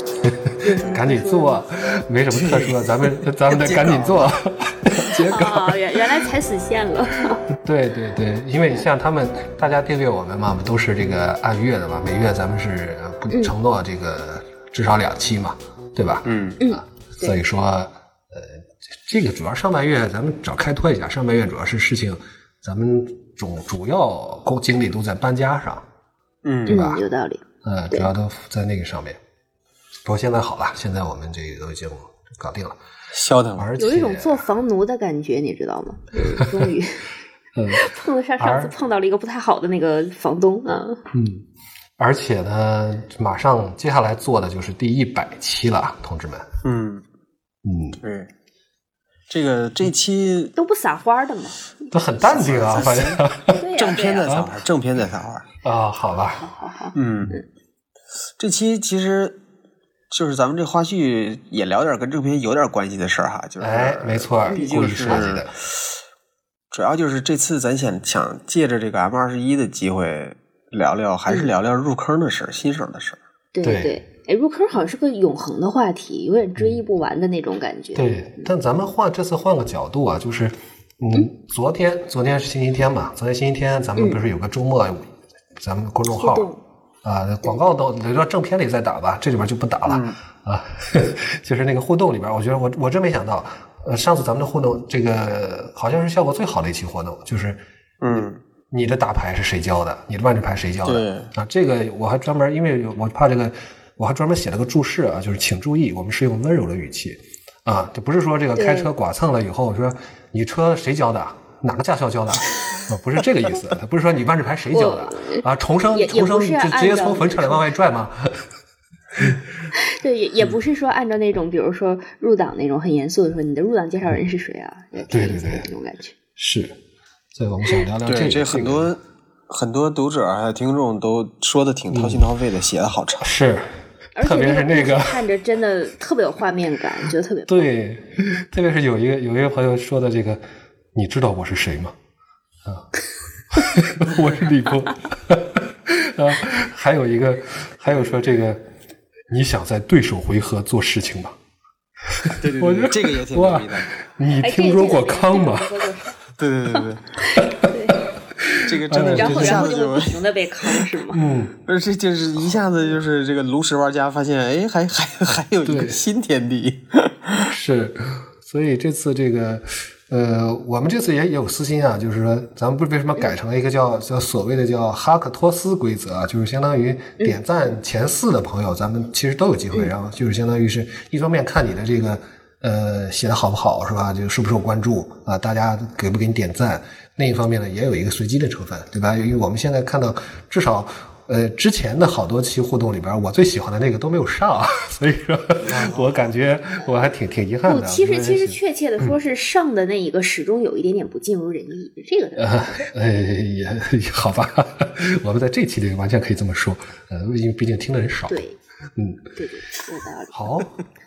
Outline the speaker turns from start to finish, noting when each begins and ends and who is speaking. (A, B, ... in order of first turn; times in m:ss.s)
0:00.2-0:05.7 A
0:00.6-0:01.6 B
0:02.3-0:04.3 C
0:05.3-0:07.4 B
0:07.6-0:25.8 A
0:16.2-0:16.6 C
0:16.6-0:17.4 B
0:26.4-0:26.8 C
0:26.7-0:27.0 A
0:26.7-0:28.1 B
0:27.6-0:29.2 A
0:30.0-0:32.8 A
0:33.1-0:33.7 C
0:33.6-0:34.5 A
0:33.8-0:37.0 B
0:37.6-0:37.8 A
0:37.7-0:41.0 B
0:38.4-0:38.7 A
0:41.1-0:41.4 A
0:42.0-0:46.5 A
0:46.6-0:47.0 C
0:47.6-0:48.0 A
0:48.0-0:48.3 C
0:49.3-0:50.5 C
0:50.6-0:51.6 B
0:51.9-0:53.6 A
0:52.2-0:53.2 C
0:53.5-0:54.4 B
0:53.8-0:55.4 C
0:55.6-0:56.4 A
0:56.3-0:57.4 B
0:56.9-0:57.4 C
0:58.4-0:59.4 C
1:00.1-1:05.5 C
1:03.6-1:05.5 A
1:04.5-1:05.3 B
1:06.7-1:13.2 C
1:13.5-1:18.5 B
1:13.6-1:14.0 A
1:17.9-1:26.5 A
1:24.0-1:24.2 B
1:26.1-1:26.6 B
1:27.0-1:37.6 A
1:27.4-1:27.7 B
1:29.8-1:30.2 C
1:38.0-1:38.4 C
1:38.1-1:58.3 A
1:40.8-1:41.3 C
1:48.5-1:48.9 B
1:54.7-1:57.6 B
1:59.8-2:06.1 B
2:05.1-2:05.7 A
2:06.4-2:06.7 A
2:07.4-2:08.9 A
2:08.0-2:13.3 C
2:11.9-2:12.2 A
2:13.2-2:13.7 A
2:14.2-2:17.7 B
2:14.2-2:15.2 A
2:17.5-2:20.4 A
2:20.9-2:21.9 A
2:23.5-2:28.6 A
2:29.3-2:31.4 A
2:32.1-2:35.7 A
2:32.4-2:33.9 C
2:34.3-2:36.2 B
2:36.4-2:37.0 C
2:37.6-2:38.0 B
2:38.6-2:40.8 C
2:38.8-2:39.7 A
2:39.1-2:41.2 B
2:41.1-2:41.5 A
2:41.6-2:47.5 C
2:45.6-2:46.0 A
2:47.5-3:19.1 A
3:15.6-3:16.2 C
3:17.6-3:22.9 B
3:22.4-3:28.4 A
3:28.3-3:28.6 B
3:29.0-3:29.2 A
3:29.4-3:30.5 B
3:30.3-3:30.8 A